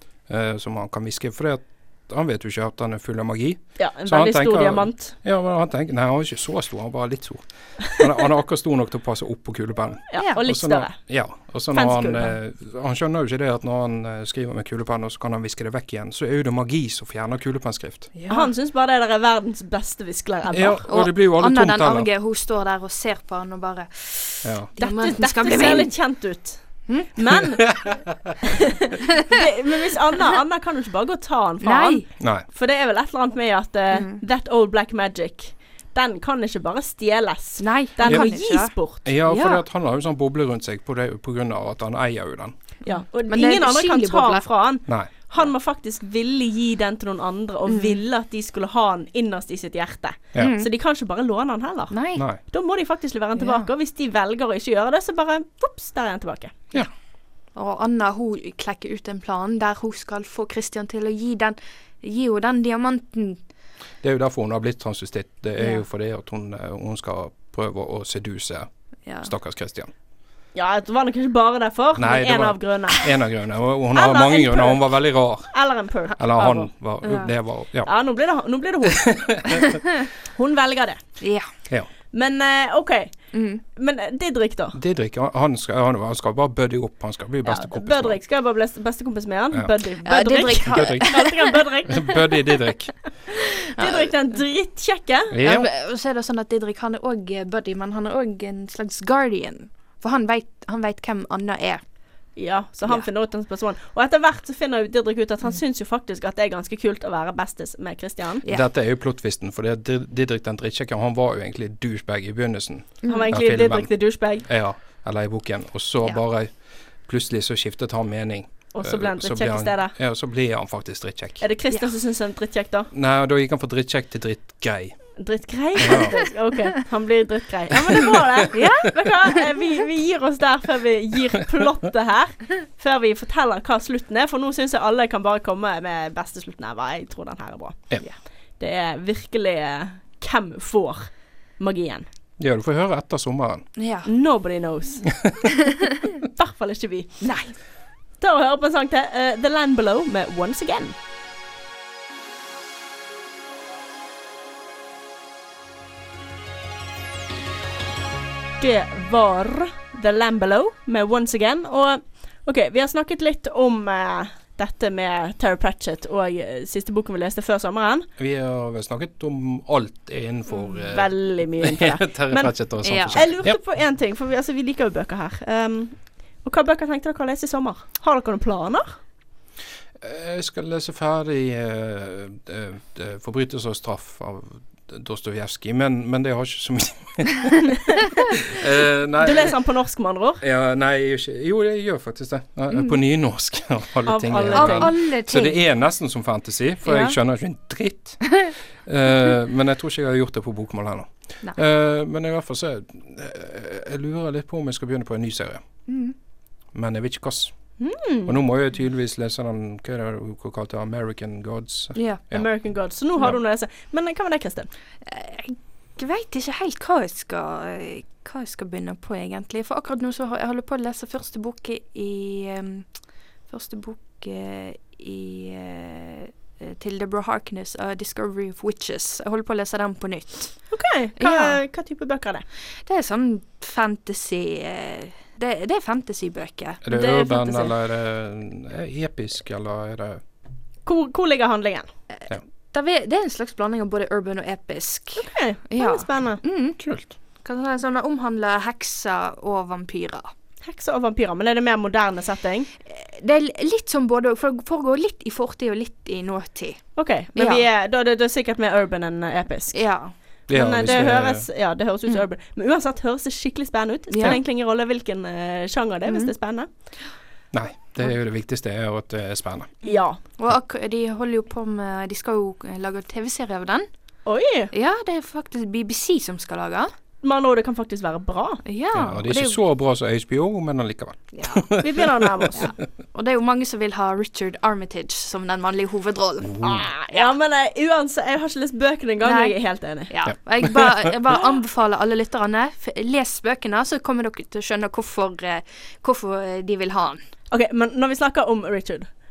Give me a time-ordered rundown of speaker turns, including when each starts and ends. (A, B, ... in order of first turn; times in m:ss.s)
0:00.3-0:18.1 A
0:03.8-0:05.2 B
0:10.1-0:11.0 B
0:11.7-0:12.4 B
0:18.2-0:18.5 C
0:18.3-0:20.8 B
0:20.5-0:22.1 A
0:20.9-0:26.1 C
0:24.4-0:24.7 A
0:24.8-0:27.8 B
0:27.6-0:28.2 A
0:28.4-0:39.1 B
0:31.6-0:32.0 C
0:32.2-0:32.5 A
0:33.9-0:34.2 C
0:37.6-0:39.6 C
0:39.0-0:42.6 A
0:42.8-0:44.5 C
0:42.9-0:56.6 B
0:47.7-0:48.0 C
0:50.4-0:50.7 C
0:51.9-0:52.2 C
0:53.4-0:53.7 C
0:57.6-1:03.4 C
1:04.0-1:08.7 A
1:05.6-1:05.9 C
1:09.1-1:09.3 C
1:09.2-1:09.9 A
1:10.6-1:13.1 B
1:12.0-1:15.6 A
1:13.9-1:16.7 B
1:16.2-1:17.9 A
1:17.0-1:17.3 C
1:17.8-1:19.4 B
1:18.9-1:19.8 A
1:20.3-1:21.0 B
1:21.2-1:21.5 C
1:22.1-1:24.8 B
1:23.3-1:23.6 C
1:24.7-1:28.2 A
1:27.5-1:32.4 B
1:30.0-1:31.6 C
1:30.7-1:31.2 A
1:31.9-1:33.0 A
1:33.3-1:35.4 B
1:33.8-1:34.1 C
1:35.3-1:35.7 A
1:35.4-1:41.8 C
1:42.4-1:48.4 B
1:48.5-1:56.5 A
1:53.0-1:53.3 C
1:53.1-1:54.5 B
1:57.0-2:01.4 A
1:58.7-2:00.0 B
2:01.4-2:02.9 B
2:02.9-2:05.2 A
2:05.2-2:17.9 B
2:05.8-2:06.2 A
2:08.0-2:08.4 A
2:08.5-2:09.1 C
2:18.6-2:22.0 B
2:22.4-2:23.7 A
2:23.8-2:24.1 C
2:24.0-2:25.2 B
2:26.4-2:27.2 B
2:27.2-2:27.5 C
2:28.2-2:31.0 B
2:38.6-2:48.1 B
2:48.2-2:53.6 A
2:50.6-2:59.0 B
2:52.8-2:53.3 C
3:00.0-3:07.7 A
3:07.9-3:08.4 B
3:08.4-3:09.6 A
3:09.2-3:10.4 B
3:10.4-3:25.6 A
3:12.7-3:13.0 C
3:14.1-3:14.9 B
3:14.5-3:15.6 C
3:16.8-3:17.2 C
3:25.9-3:26.2 C
3:26.7-3:27.5 A
3:27.8-3:28.4 B
3:28.3-3:32.5 A
3:32.0-3:32.2 C
3:32.3-3:34.7 B
3:35.1-3:42.9 C
3:43.5-3:51.6 C
3:50.7-3:52.4 B
3:52.9-3:56.8 C
3:56.8-4:00.2 A
3:56.9-3:57.7 B
4:00.9-4:01.9 B
4:02.2-4:06.8 C
4:05.2-4:06.4 B
4:06.8-4:07.1 A
4:07.4-4:10.3 C
4:10.6-4:12.7 B
4:12.9-4:17.6 C
4:17.0-4:19.8 B
4:19.7-4:20.1 C
4:20.5-4:21.5 A
4:20.5-4:26.7 B
4:24.1-4:24.4 C
4:27.5-4:29.7 A
4:29.8-4:30.2 B
4:30.4-4:33.9 C
4:34.3-4:34.7 B
4:34.7-4:36.9 C
4:37.2-4:38.6 B
4:38.6-4:39.6 C
4:38.9-4:42.6 A
4:41.3-4:41.8 C
4:41.8-4:42.7 B
4:42.6-4:47.3 C
4:46.5-4:46.8 A
4:46.6-4:50.1 B
4:49.2-4:57.2 C
4:50.3-4:51.1 A
4:57.5-4:59.1 B